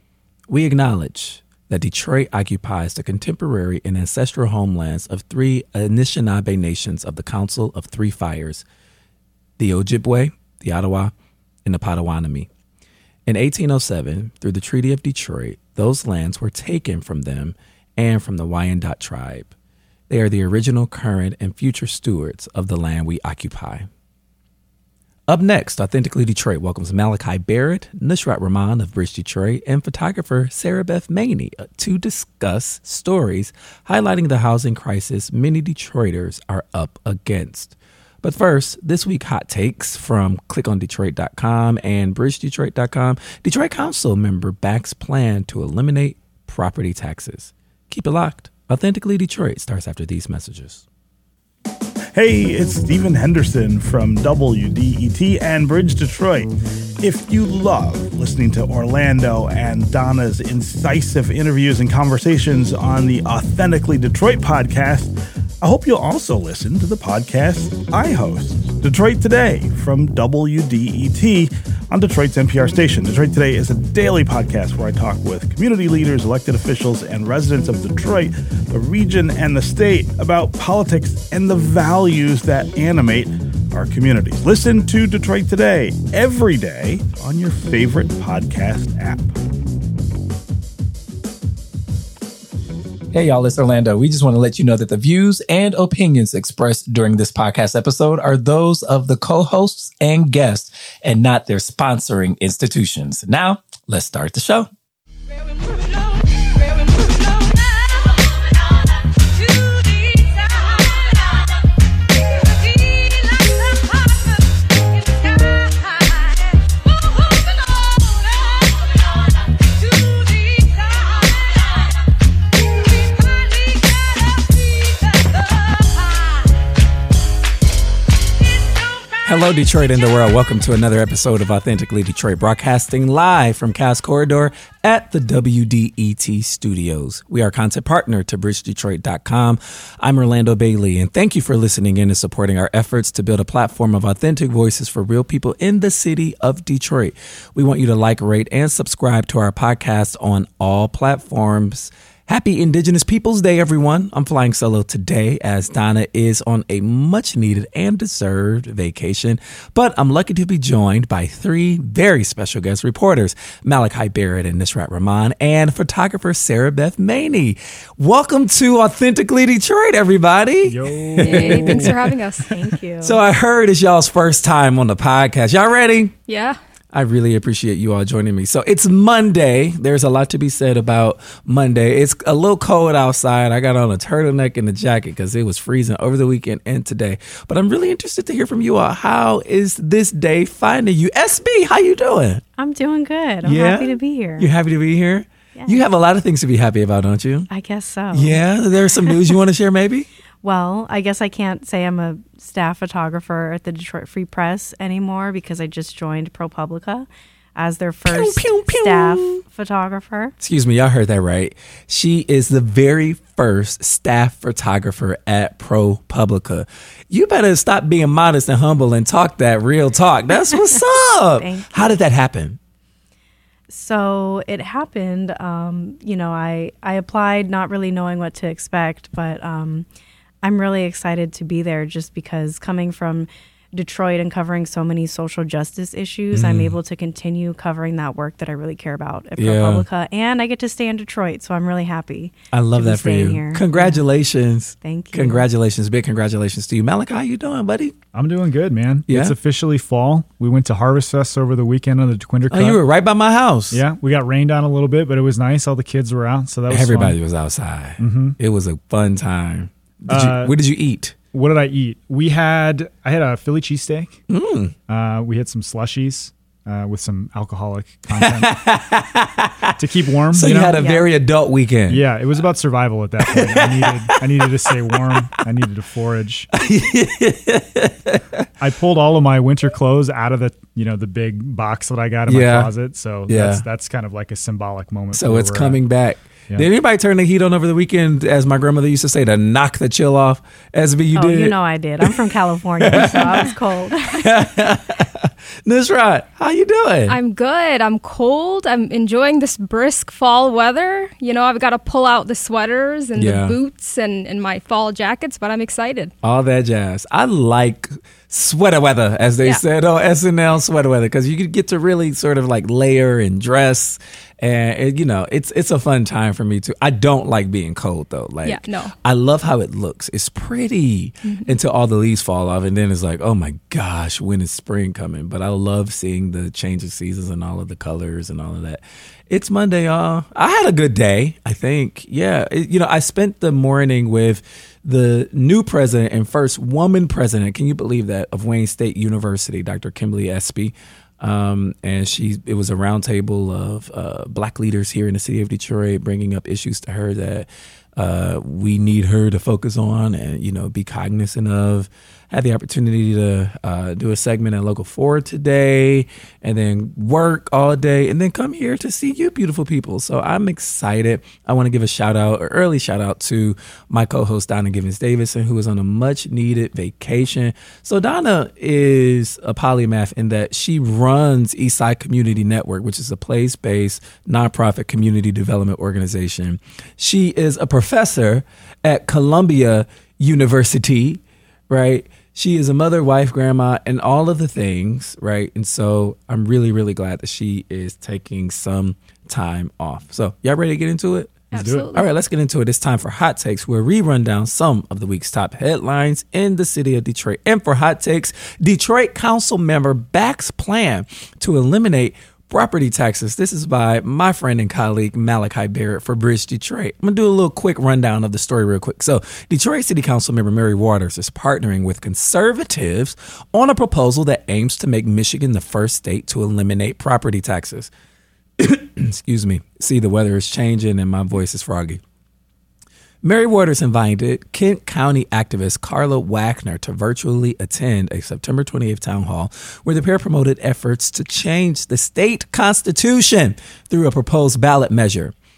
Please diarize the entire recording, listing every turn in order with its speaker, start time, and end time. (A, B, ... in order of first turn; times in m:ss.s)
0:00.5-0:08.6 A
0:09.6-0:11.1 A
0:11.6-0:12.5 A
0:13.3-0:19.5 A
0:20.1-0:23.9 A
0:25.3-0:50.8 A
0:52.1-0:56.5 B
0:57.0-1:29.4 B
1:33.1-1:44.7 A
2:09.2-2:51.9 A
2:50.6-2:52.1 C
2:51.2-2:52.5 D
2:52.5-2:53.2 E
2:53.0-2:56.1 A
2:56.3-2:56.6 D
2:56.9-3:12.4 A
3:12.6-3:14.5 E
3:13.4-3:17.5 A
3:15.5-3:15.8 E
3:17.5-3:19.1 E
3:18.1-3:20.1 A
3:20.4-3:30.3 E
3:28.0-3:29.4 A
3:30.4-3:42.6 A
3:40.6-3:42.0 E
3:43.7-3:49.8 E
3:50.4-4:04.0 E
3:56.3-3:56.7 A
3:59.4-3:59.8 A
4:02.5-4:07.9 A
4:04.8-4:05.4 E
4:08.1-4:12.8 C
4:09.1-4:09.3 A
4:12.5-4:13.8 A
4:13.7-4:17.2 C
4:16.7-4:21.2 A
4:18.0-4:18.4 C
4:20.1-4:20.6 C
4:21.3-4:24.2 C
4:24.3-4:24.7 A
4:24.9-4:28.5 C
4:28.1-4:29.8 A
4:29.8-4:30.7 C
4:30.3-4:32.0 A
4:30.4-4:31.1 E
4:31.9-4:36.5 C
4:33.3-4:34.2 A
4:36.5-4:38.5 A
4:38.6-4:45.8 C
4:42.3-4:42.7 A
4:43.3-4:43.6 A
4:45.1-4:52.2 A
4:51.1-4:54.3 E
4:52.8-4:53.5 A
4:54.0-4:57.2 A
4:57.1-5:06.1 D
5:03.1-5:03.6 A
5:06.2-6:57.9 A
5:18.4-5:18.9 D
5:21.2-5:21.6 D
6:31.5-6:32.0 D
6:31.5-6:31.8 C
6:58.6-7:02.0 A
7:03.2-7:15.3 A